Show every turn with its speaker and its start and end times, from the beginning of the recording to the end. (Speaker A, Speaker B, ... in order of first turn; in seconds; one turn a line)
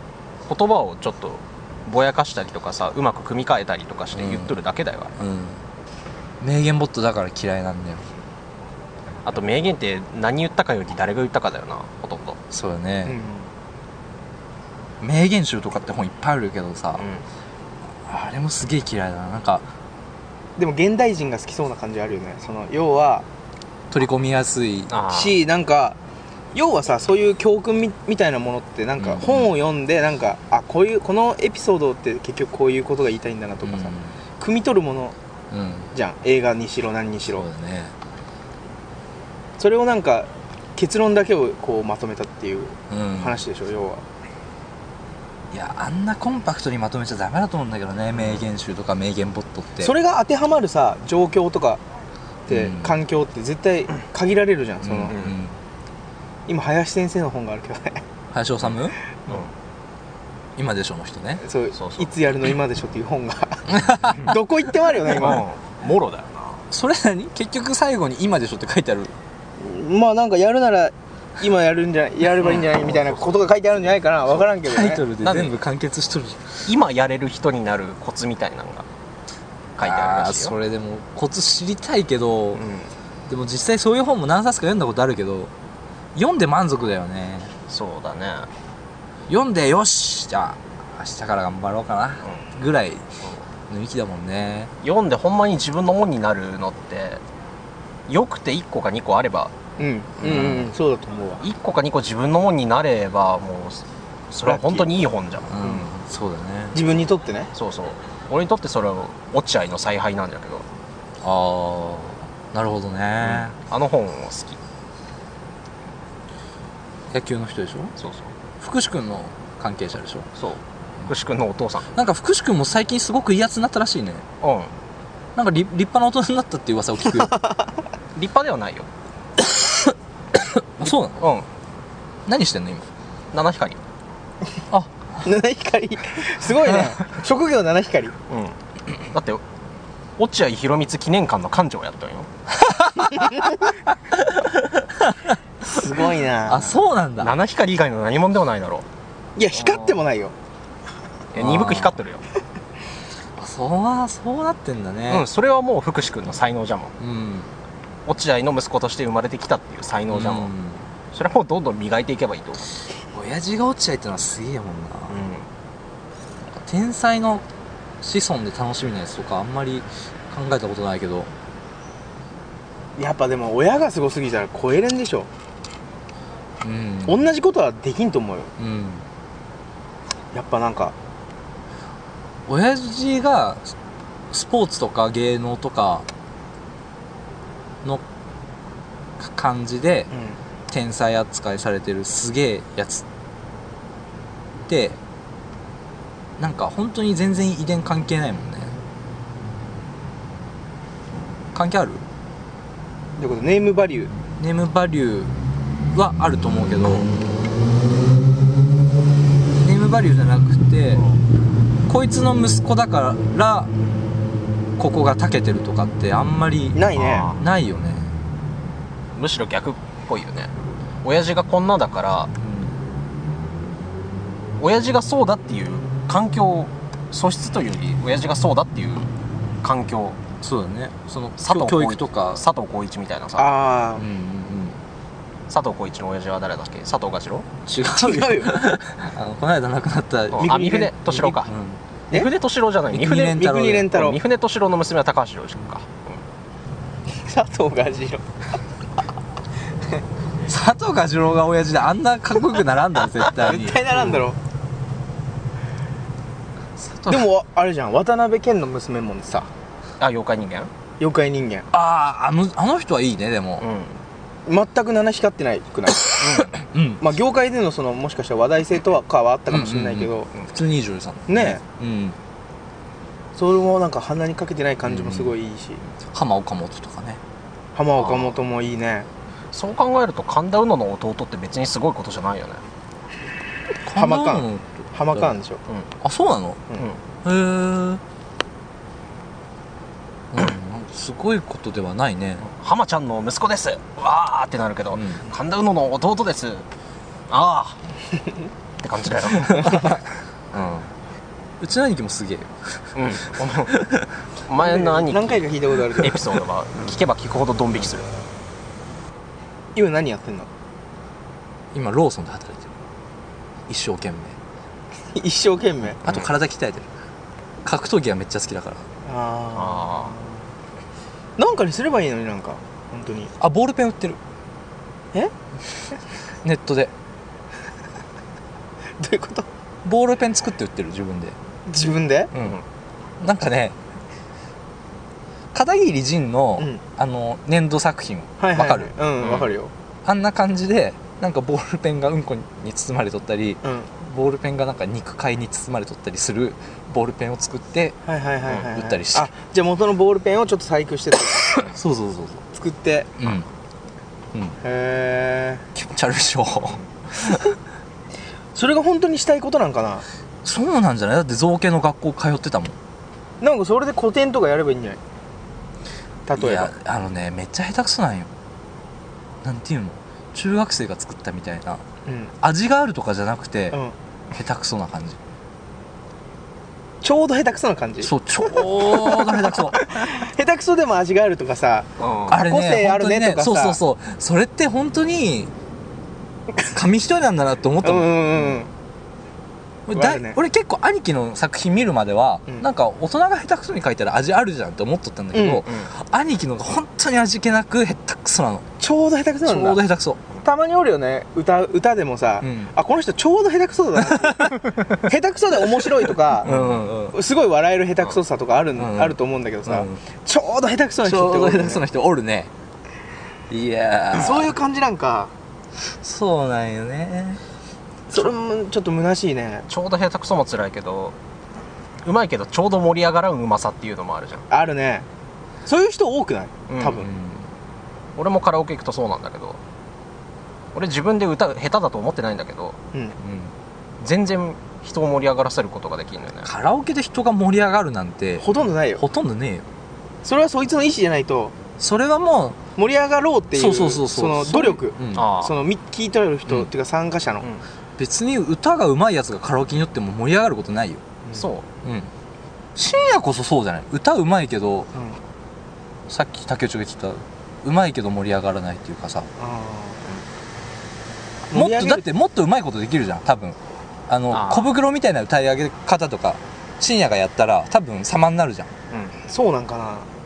Speaker A: 0.5-5.1
Speaker B: 4.1-4.5
Speaker B: 5.2-5.6
Speaker B: 6.4-8.1
Speaker A: 9.2-12.4
Speaker B: 12.5-13.2
Speaker C: 13.0-13.5
Speaker B: 15.0-17.0
Speaker A: 17.0-17.2
Speaker B: 18.0-19.7
Speaker C: 20.6-23.2
Speaker B: 23.9-24.9
Speaker A: 24.9-25.4
Speaker C: 25.1-26.0
Speaker C: 26.5-35.1
Speaker B: 29.0-29.5
Speaker B: 33.6-34.1
Speaker B: 35.5-35.9
Speaker C: 35.9-37.4
Speaker B: 37.3-37.9
Speaker C: 39.6-44.0
Speaker B: 42.9-43.4
Speaker B: 45.5-49.9
Speaker A: 48.1-48.4
Speaker C: 49.8-51.8
Speaker C: 52.5-55.1
Speaker B: 52.5-53.0
Speaker B: 54.8-55.6
Speaker A: 55.1-55.4
Speaker C: 56.5-58.0
Speaker B: 58.3-59.0
Speaker B: 60.5-61.4
Speaker C: 61.4-65.4
Speaker A: 61.7-62.1
Speaker B: 63.7-64.3
Speaker A: 65.1-66.6
Speaker B: 66.7-69.1
Speaker C: 69.6-75.0
Speaker A: 72.4-73.4
Speaker B: 74.6-76.7
Speaker A: 75.2-75.5
Speaker A: 76.7-78.8
Speaker A: 79.8-80.5
Speaker B: 79.8-82.6
Speaker A: 82.5-82.9
Speaker B: 83.3-85.5
Speaker B: 86.1-87.5
Speaker A: 87.7-88.5
Speaker B: 89.3-93.2
Speaker B: 93.7-94.7
Speaker A: 94.8-97.2
Speaker A: 98.1-99.5
Speaker C: 99.8-101.4
Speaker B: 100.2-100.7
Speaker A: 101.4-105.5
Speaker C: 104.5-105.0
Speaker B: 105.5-106.8
Speaker C: 105.6-105.9
Speaker C: 106.7-107.5
Speaker A: 107.5-110.6
Speaker B: 111.2-113.5
Speaker A: 113.2-114.6
Speaker B: 117.1-117.9
Speaker A: 118.0-118.3
Speaker B: 118.6-120.3
Speaker A: 120.4-121.9
Speaker B: 121.9-124.2
Speaker A: 124.4-124.7
Speaker B: 125.3-127.4
Speaker A: 128.1-128.9
Speaker B: 129.4-131.3
Speaker A: 131.2-131.5
Speaker B: 132.3-132.9
Speaker A: 133.3-133.8
Speaker C: 135.2-138.1
Speaker B: 136.6-136.9
Speaker A: 138.3-139.4
Speaker A: 140.2-142.3
Speaker B: 143.0-143.5
Speaker C: 143.1-143.5
Speaker B: 144.1-147.4
Speaker C: 145.6-146.8
Speaker A: 147.2-148.8
Speaker C: 149.3-150.3
Speaker A: 151.3-152.2
Speaker B: 151.3-152.0
Speaker B: 153.4-155.3
Speaker A: 155.1-156.9
Speaker B: 157.0-157.5
Speaker A: 158.1-160.5
Speaker B: 160.1-160.9
Speaker A: 161.1-162.7
Speaker B: 163.1-165.2
Speaker A: 165.1-165.5
Speaker B: 166.5-167.4
Speaker B: 168.0-171.3
Speaker C: 173.0-175.3
Speaker B: 176.6-177.2
Speaker C: 177.1-178.5
Speaker B: 178.6-179.0
Speaker C: 180.3-180.9
Speaker B: 182.5-183.7
Speaker B: 184.3-186.1
Speaker B: 189.2-190.1
Speaker C: 190.1-190.4
Speaker B: 190.7-193.0
Speaker B: 194.7-195.0
Speaker B: 196.4-198.7
Speaker B: 201.5-202.0
Speaker C: 203.2-204.1
Speaker B: 204.4-205.3
Speaker B: 205.9-207.1
Speaker B: 209.6-211.1
Speaker B: 211.9-213.7
Speaker B: 214.8-218.1
Speaker C: 216.7-217.3
Speaker A: 216.9-217.4
Speaker A: 219.1-220.5
Speaker A: 221.0-222.3
Speaker B: 222.4-222.8
Speaker A: 224.6-229.1
Speaker A: 229.6-230.2
Speaker B: 230.4-232.4
Speaker A: 231.4-233.5
Speaker C: 233.4-234.1
Speaker B: 234.0-234.8
Speaker A: 235.5-237.5
Speaker B: 237.7-241.8
Speaker C: 237.9-238.7
Speaker A: 240.3-241.5
Speaker C: 240.4-240.9
Speaker A: 242.1-246.2
Speaker B: 242.9-243.9
Speaker C: 243.2-244.2
Speaker C: 247.2-248.2
Speaker B: 250.5-253.8
Speaker C: 253.3-254.4
Speaker B: 256.8-257.2
Speaker C: 257.1-259.5
Speaker A: 260.0-260.7
Speaker C: 261.0-261.7
Speaker B: 261.7-263.7
Speaker A: 263.6-264.0
Speaker C: 264.4-266.4
Speaker A: 266.2-266.5
Speaker B: 266.5-267.0
Speaker C: 267.0-270.3
Speaker B: 269.5-272.2
Speaker C: 271.3-271.6
Speaker C: 273.4-275.8
Speaker B: 274.8-275.3
Speaker B: 276.0-277.2
Speaker C: 277.7-279.1
Speaker A: 278.0-278.4
Speaker A: 279.5-282.6
Speaker B: 283.8-285.4
Speaker C: 283.9-285.6
Speaker B: 286.0-286.6
Speaker B: 287.2-288.0
Speaker B: 290.3-292.4
Speaker A: 292.4-296.6
Speaker B: 294.9-295.2
Speaker A: 297.3-297.8
Speaker A: 298.8-300.0
Speaker B: 299.5-299.8
Speaker B: 300.5-300.9
Speaker B: 301.6-303.0
Speaker A: 302.9-303.7
Speaker B: 303.6-304.1
Speaker A: 304.5-308.1
Speaker C: 304.6-306.2
Speaker C: 309.7-310.5
Speaker B: 311.7-312.7
Speaker B: 313.7-314.4
Speaker C: 315.1-316.0
Speaker B: 316.0-316.9
Speaker A: 316.0-316.3
Speaker B: 317.6-318.8
Speaker C: 319.0-320.4
Speaker A: 319.5-320.1
Speaker C: 321.4-323.3
Speaker B: 323.4-324.2
Speaker B: 326.4-326.9
Speaker C: 329.0-329.5
Speaker B: 329.8-331.4
Speaker C: 331.6-332.3
Speaker B: 332.3-332.6
Speaker B: 333.2-333.8
Speaker B: 335.5-338.9
Speaker C: 338.4-339.7
Speaker A: 339.2-339.5
Speaker B: 340.0-348.0
Speaker C: 348.1-351.7
Speaker B: 348.6-349.3
Speaker B: 351.6-352.4
Speaker C: 352.5-353.1
Speaker B: 353.2-353.5
Speaker B: 354.3-354.6
Speaker C: 354.6-355.6
Speaker B: 355.7-357.5
Speaker C: 358.5-360.0
Speaker B: 360.4-362.8
Speaker C: 363.4-365.0
Speaker C: 366.3-366.7
Speaker B: 366.4-368.3
Speaker B: 369.4-371.8
Speaker C: 372.1-372.3
Speaker B: 372.4-373.8
Speaker B: 374.3-375.2
Speaker C: 377.0-383.8
Speaker B: 378.0-379.8
Speaker A: 382.0-382.4
Speaker B: 382.3-385.5
Speaker B: 386.7-388.4
Speaker C: 387.8-388.7
Speaker B: 389.9-398.6
Speaker C: 389.9-390.4
Speaker C: 395.3-395.6
Speaker C: 398.8-399.8
Speaker B: 399.4-400.2
Speaker C: 400.4-406.5
Speaker B: 402.4-402.7
Speaker B: 404.0-404.6
Speaker B: 406.4-407.1
Speaker A: 406.4-406.8
Speaker C: 407.1-411.9
Speaker B: 408.8-410.0
Speaker B: 411.0-412.5
Speaker B: 413.5-414.5
Speaker C: 414.1-415.3
Speaker B: 415.9-417.4
Speaker C: 418.1-419.7
Speaker A: 419.7-421.1
Speaker A: 422.0-424.4
Speaker C: 424.5-425.1
Speaker C: 425.6-427.1
Speaker A: 426.7-427.1
Speaker B: 427.0-427.5
Speaker A: 428.2-429.6
Speaker A: 430.7-432.8
Speaker B: 433.2-433.5
Speaker A: 434.0-436.5
Speaker B: 436.4-438.5
Speaker C: 438.4-439.0
Speaker B: 439.0-439.6
Speaker C: 440.2-441.5
Speaker B: 441.8-442.6
Speaker C: 442.8-447.5
Speaker B: 443.5-445.3
Speaker A: 445.1-445.5
Speaker B: 448.0-451.0
Speaker A: 451.3-451.6
Speaker B: 451.8-452.1
Speaker B: 452.7-454.9
Speaker B: 456.1-459.3
Speaker C: 459.4-460.2
Speaker C: 461.5-462.0
Speaker B: 461.5-463.6
Speaker B: 464.1-468.7
Speaker A: 464.3-464.7
Speaker C: 469.2-470.1